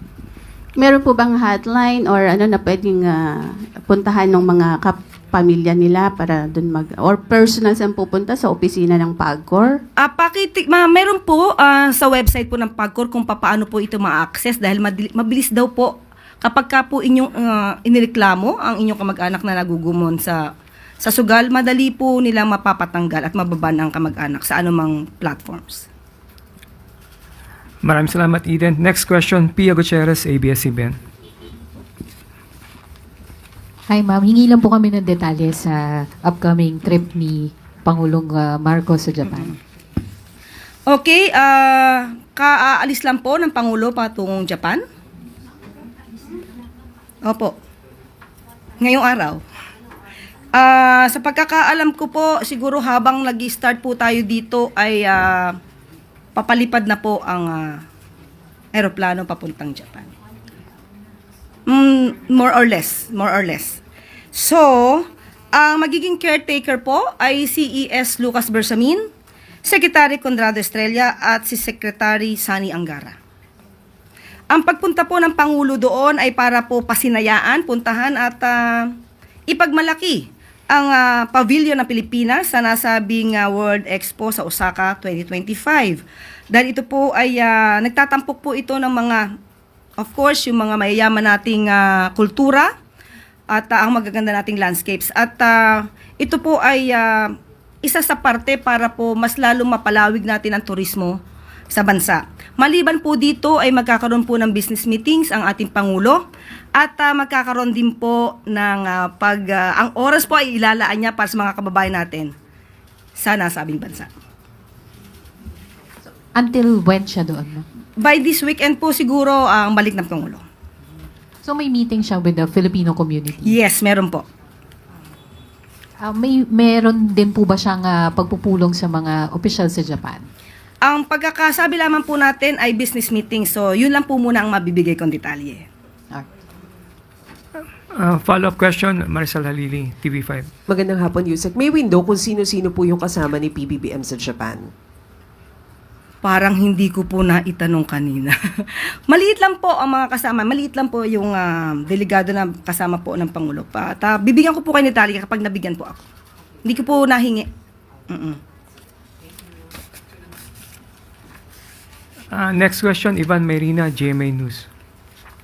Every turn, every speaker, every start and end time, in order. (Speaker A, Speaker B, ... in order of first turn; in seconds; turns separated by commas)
Speaker A: 0.8-9.8, Speaker B: 10.0-20.4, Speaker B: 21.0-25.9, Speaker C: 27.8-31.0, Speaker D: 33.9-39.6, Speaker B: 40.9-44.8, Speaker B: 47.2-47.5, Speaker B: 48.8-49.4, Speaker B: 50.5-55.5, Speaker B: 56.4-57.8, Speaker B: 58.7-60.1, Speaker B: 61.7-63.8, Speaker B: 64.3-69.0, Speaker B: 69.6-73.2, Speaker B: 74.5-78.9, Speaker B: 79.5-89.2, Speaker B: 90.0-92.7, Speaker B: 93.5-101.2, Speaker B: 101.7-112.3, Speaker B: 113.2-114.1, Speaker D: 116.3-117.6, Speaker B: 118.0-120.4, Speaker D: 121.4-123.6, Speaker B: 123.4-124.2, Speaker D: 126.0-130.2, Speaker B: 130.8-135.7, Speaker C: 137.9-140.5, Speaker E: 140.7-144.7, Speaker B: 146.2-156.0, Speaker B: 156.6-157.5, Speaker B: 158.1-158.4, Speaker C: 162.3-164.7